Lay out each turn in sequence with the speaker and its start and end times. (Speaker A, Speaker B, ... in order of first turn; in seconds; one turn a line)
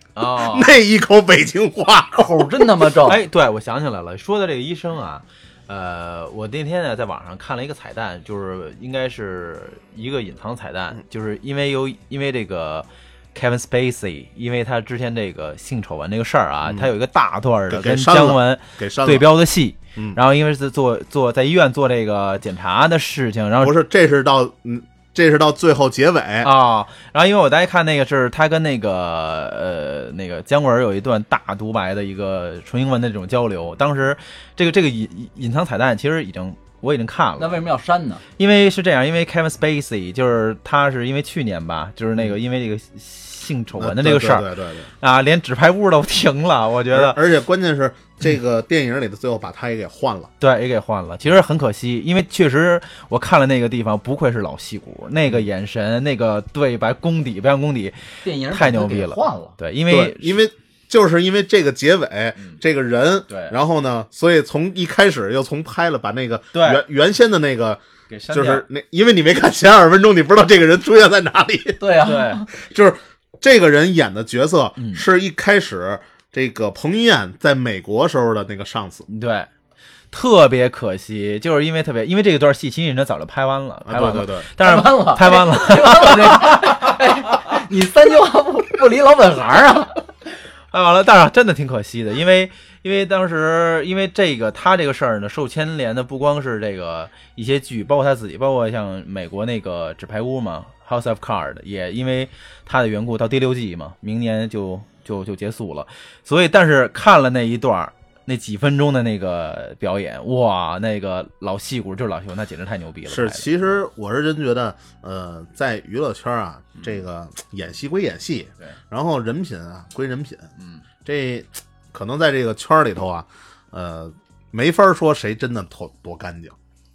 Speaker A: 0.1-0.7
Speaker B: 0.4-2.5
Speaker C: 2.2-3.2
Speaker A: 3.0-23.8
Speaker B: 16.6-16.9
Speaker B: 17.7-19.3
Speaker B: 23.6-26.5
Speaker A: 26.4-37.6
Speaker C: 37.4-38.2
Speaker A: 38.4-47.2
Speaker B: 43.8-44.9
Speaker B: 46.9-50.3
Speaker A: 50.4-60.4
Speaker C: 58.2-59.6
Speaker B: 59.9-79.1
Speaker A: 63.3-63.6
Speaker A: 66.5-66.8
Speaker A: 68.1-68.7
Speaker C: 71.8-72.5
Speaker A: 72.0-72.4
Speaker A: 74.8-75.0
Speaker A: 79.1-79.5
Speaker A: 80.1-87.0
Speaker B: 83.9-84.5
Speaker C: 84.6-90.0
Speaker A: 90.7-113.6
Speaker B: 113.1-120.5
Speaker A: 120.6-120.8
Speaker B: 121.0-126.6